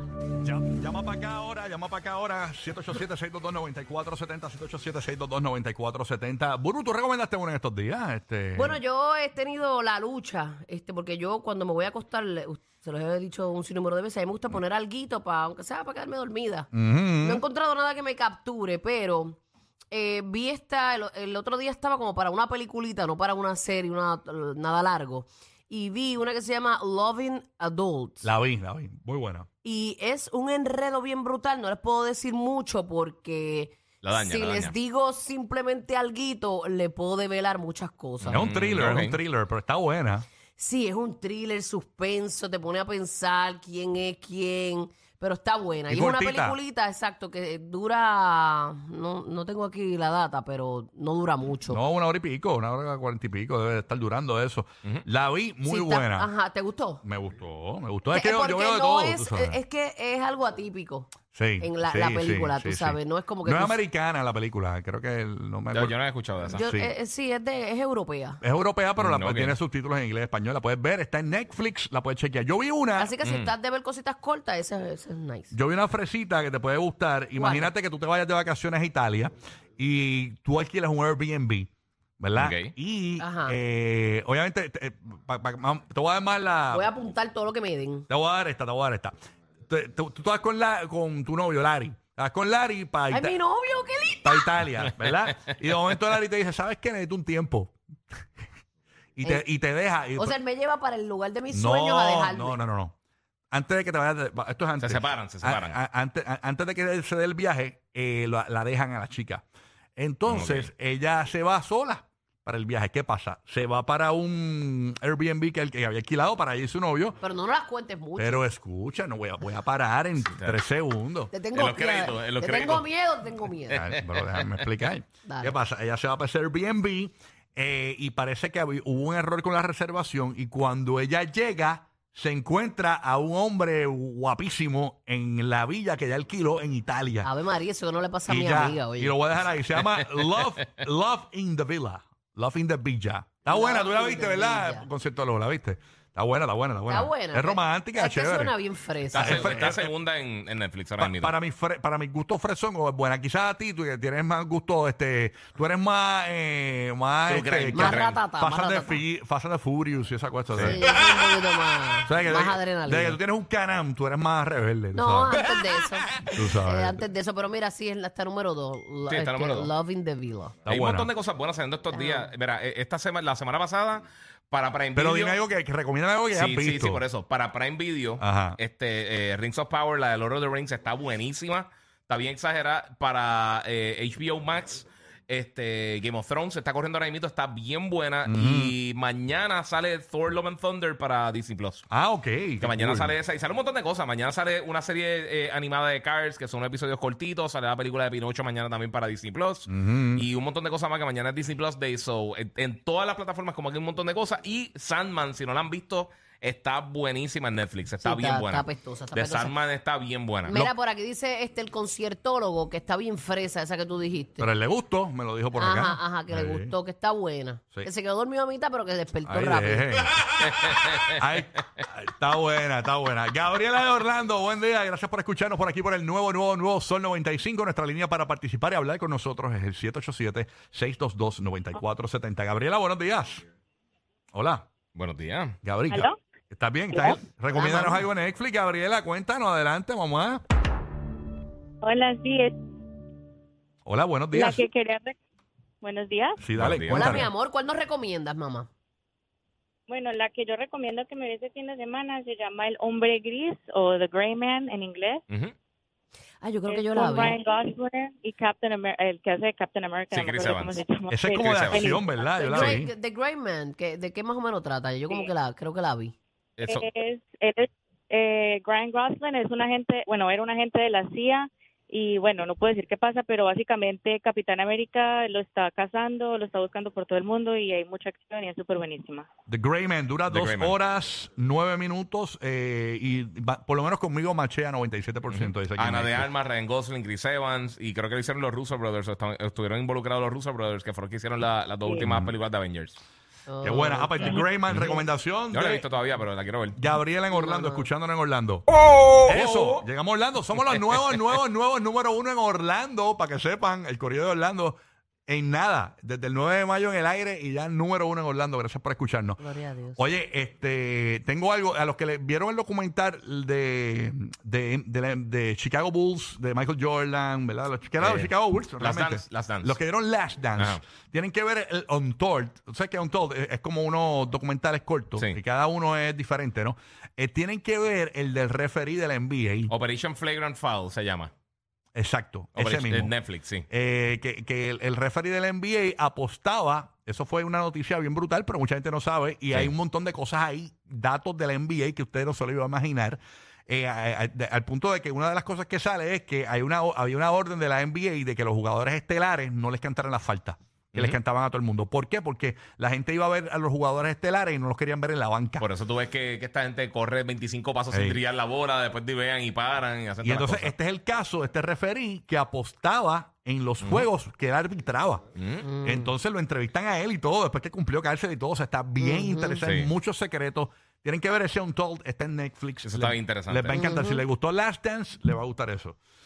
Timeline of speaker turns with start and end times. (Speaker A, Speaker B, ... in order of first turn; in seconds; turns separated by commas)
Speaker A: 0.4-8.8, Speaker B: 8.6-19.4, Speaker A: 16.7-17.4, Speaker B: 19.9-28.3, Speaker A: 28.2-29.5, Speaker B: 29.6-38.4, Speaker C: 34.0-34.7, Speaker C: 38.2-39.2, Speaker A: 38.3-40.3, Speaker B: 40.6-51.8, Speaker A: 45.9-46.6, Speaker A: 51.7-56.3, Speaker B: 55.6-57.0, Speaker A: 57.0-59.6, Speaker B: 58.1-63.8, Speaker A: 61.3-66.0, Speaker C: 65.7-66.7, Speaker B: 66.5-68.4, Speaker A: 66.5-66.9, Speaker A: 68.4-73.1, Speaker C: 69.0-69.6, Speaker B: 73.0-75.5, Speaker C: 73.2-73.5, Speaker A: 75.5-81.7, Speaker B: 77.4-77.7, Speaker A: 82.2-86.9, Speaker C: 82.4-82.7, Speaker B: 83.2-83.6, Speaker B: 86.7-88.1, Speaker A: 88.1-89.2, Speaker A: 89.7-93.4, Speaker B: 93.1-94.6, Speaker A: 94.2-97.8, Speaker A: 99.2-100.3, Speaker B: 100.2-102.6, Speaker A: 101.5-103.0, Speaker A: 103.5-109.4, Speaker C: 104.8-105.8, Speaker A: 110.0-117.2, Speaker C: 110.3-110.7, Speaker B: 117.2-118.5, Speaker A: 118.2-121.3, Speaker C: 120.2-120.6, Speaker B: 121.3-123.9, Speaker C: 121.5-122.9, Speaker A: 123.7-137.3, Speaker C: 124.0-124.4, Speaker B: 125.3-125.6, Speaker B: 137.2-139.2, Speaker A: 138.3-148.6, Speaker B: 143.5-144.9, Speaker B: 146.9-149.8, Speaker C: 149.1-151.3, Speaker A: 149.1-149.9, Speaker A: 151.0-160.8, Speaker C: 157.3-158.2, Speaker B: 157.7-159.0, Speaker C: 160.6-160.8, Speaker B: 160.6-163.2, Speaker A: 162.1-165.4, Speaker B: 164.9-170.6, Speaker A: 166.3-167.0, Speaker C: 169.1-169.7, Speaker A: 170.7-171.1, Speaker C: 170.7-175.4, Speaker B: 171.9-172.3, Speaker A: 174.9-177.0, Speaker C: 176.3-191.8, Speaker A: 178.2-178.6, Speaker A: 188.3-188.7, Speaker A: 191.9-193.1, Speaker C: 192.6-210.6, Speaker A: 199.7-200.2, Speaker B: 208.0-209.6, Speaker B: 210.5-214.5, Speaker A: 214.4-216.7, Speaker B: 215.6-220.0, Speaker A: 219.3-233.4, Speaker C: 220.7-221.1, Speaker A: 234.3-234.7, Speaker C: 234.9-235.6, Speaker A: 235.6-240.4, Speaker D: 235.9-236.2, Speaker B: 237.5-238.1, Speaker D: 241.8-242.6, Speaker A: 243.8-244.7, Speaker D: 244.3-245.2, Speaker D: 245.8-246.4, Speaker A: 246.4-247.3, Speaker C: 246.6-247.3, Speaker B: 246.9-248.7, Speaker D: 249.9-255.2, Speaker C: 255.3-255.5, Speaker B: 256.4-257.4, Speaker D: 256.6-262.8, Speaker C: 260.1-260.8, Speaker A: 261.1-262.9, Speaker C: 261.4-261.9, Speaker B: 262.2-266.1, Speaker C: 266.6-266.9, Speaker D: 266.6-279.3, Speaker A: 279.5-286.3, Speaker C: 280.3-280.8, Speaker C: 285.3-293.0, Speaker B: 293.5-294.5, Speaker A: 293.6-295.9, Speaker C: 294.7-295.0, Speaker C: 295.5-296.8, Speaker A: 296.8-298.6, Speaker B: 297.3-297.9, Speaker C: 299.3-299.9, Speaker A: 299.3-329.7, Speaker B: 309.4-310.0, Speaker C: 318.0-319.8, Speaker C: 329.7-331.3, Speaker A: 331.9-333.1, Speaker C: 332.6-333.7, Speaker A: 333.7-355.7, Speaker C: 355.6-360.7, Speaker A: 357.9-358.2, Speaker A: 360.2-365.2, Speaker C: 363.8-364.1, Speaker C: 365.4-365.7, Speaker B: 365.6-366.1, Speaker A: 365.8-376.0, Speaker B: 369.0-369.6, Speaker C: 369.6-369.9, Speaker C: 372.8-373.8, Speaker B: 373.7-374.2